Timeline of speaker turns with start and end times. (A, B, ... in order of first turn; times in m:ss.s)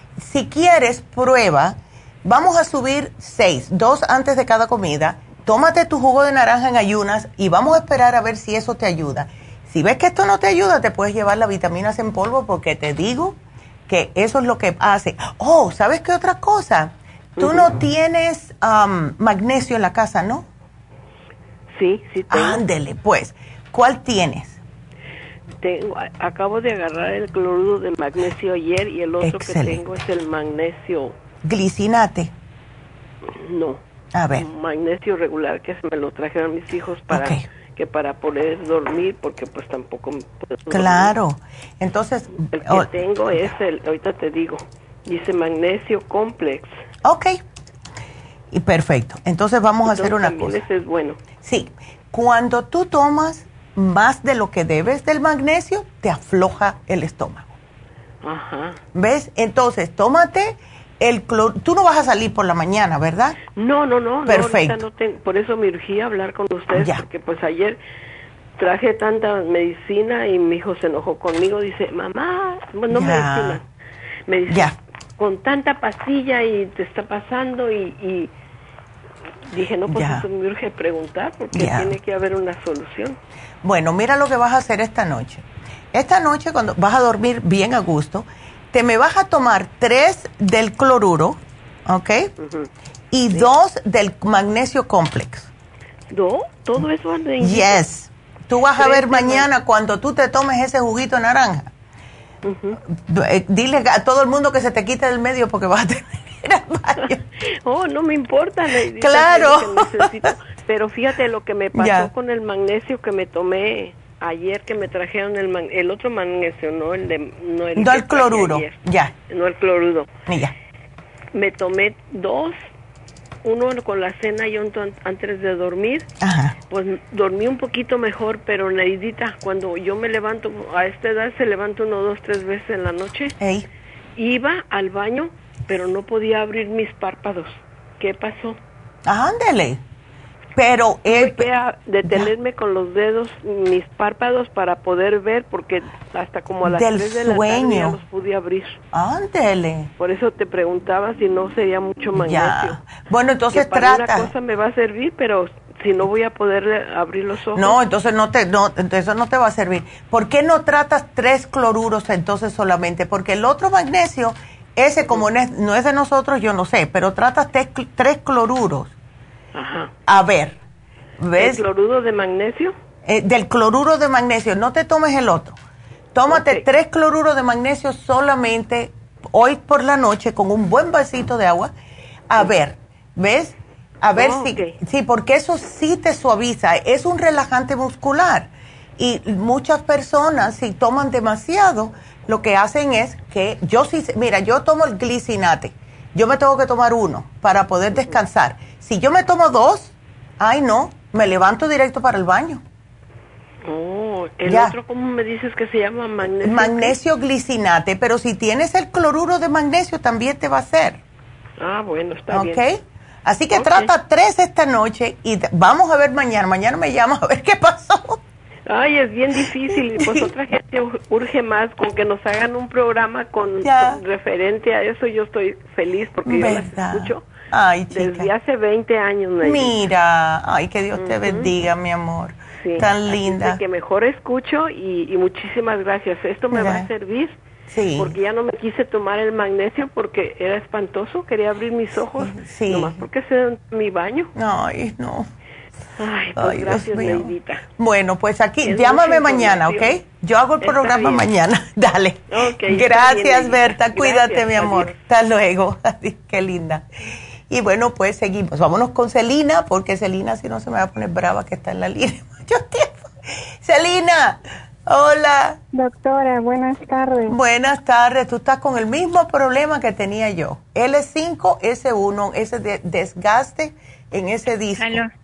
0:00.2-0:13.4 A
0:13.9-0:20.5 A
0:17.4-0:17.7 B
0:21.7-0:22.6 B
0:22.3-0:24.6 A
0:25.6-0:31.2 B
0:29.2-0:30.0 A
0:31.4-0:32.3 A
0:33.3-0:33.8 B
0:34.1-0:34.5 A
0:34.4-0:41.1 B
0:37.1-0:37.4 A
0:40.7-0:43.5 A
0:42.5-0:46.7 B
0:47.0-0:47.4 A
0:48.5-0:50.6 A
0:49.8-0:51.2 B
0:51.4-0:57.5 A
0:58.2-0:58.8 B
0:59.0-1:03.4 A
1:03.6-1:07.8 B
1:04.3-1:04.8 A
1:06.7-1:07.0 A
1:08.6-1:13.7 B
1:12.9-1:13.6 A
1:14.3-1:18.3 B
1:14.5-1:14.8 A
1:19.5-1:23.2 B
1:19.9-1:20.3 A
1:21.5-1:22.0 A
1:23.6-1:32.3 A
1:32.4-1:32.7 B
1:33.1-1:35.5 A
1:36.1-1:37.8 B
1:37.4-1:41.7 A
1:38.8-1:39.5 B
1:42.4-1:42.8 B
1:42.9-1:47.2 A
1:47.0-2:00.1 B
1:49.0-1:50.3 A
1:51.8-1:52.1 A
1:57.8-1:59.1 A
2:00.3-2:00.5 A
2:01.3-2:02.6 B
2:03.4-2:06.1 B
2:06.2-2:06.6 A
2:06.7-2:13.4 B
2:13.4-2:13.7 A
2:14.2-2:18.6 B
2:19.1-2:19.8 A
2:20.6-2:21.5 A
2:21.1-2:28.8 B
2:22.0-2:22.3 A
2:26.6-2:28.0 A
2:28.9-2:29.9 A
2:30.0-2:32.8 B
2:32.2-2:34.3 A
2:33.5-2:37.8 B
2:37.6-2:48.9 A
2:49.6-2:49.9 B
2:50.1-2:50.6 A
2:51.2-2:51.6 A
2:51.4-2:52.7 B
2:53.0-2:55.6 A
2:56.1-3:01.7 A
2:56.3-2:56.7 B
3:02.3-3:22.6 A
3:04.2-3:04.8 B
3:17.9-3:18.2 B
3:23.7-3:27.0 B
3:24.5-3:24.8 A
3:26.4-3:31.0 A
3:31.6-3:32.6 B
3:32.3-3:38.2 A
3:33.5-3:33.9 B
3:38.7-3:47.3 B
3:39.7-3:40.3 A
3:43.6-3:44.0 A
3:46.2-3:48.3 A
3:47.9-3:49.8 B
3:49.4-3:53.6 A
3:51.0-3:51.5 B
3:52.6-3:57.4 B
3:56.5-3:56.9 A
3:57.7-3:58.2 A
3:58.0-4:04.3 B
4:02.2-4:03.1 A
4:04.4-4:05.3 A
4:06.0-4:07.6 B
4:06.4-4:16.8 A
4:08.6-4:10.0 B
4:10.6-4:11.3 B
4:12.3-4:14.9 B
4:17.5-4:25.6 A
4:25.7-4:27.4 C
4:27.3-4:35.0 A
4:34.8-4:35.1 C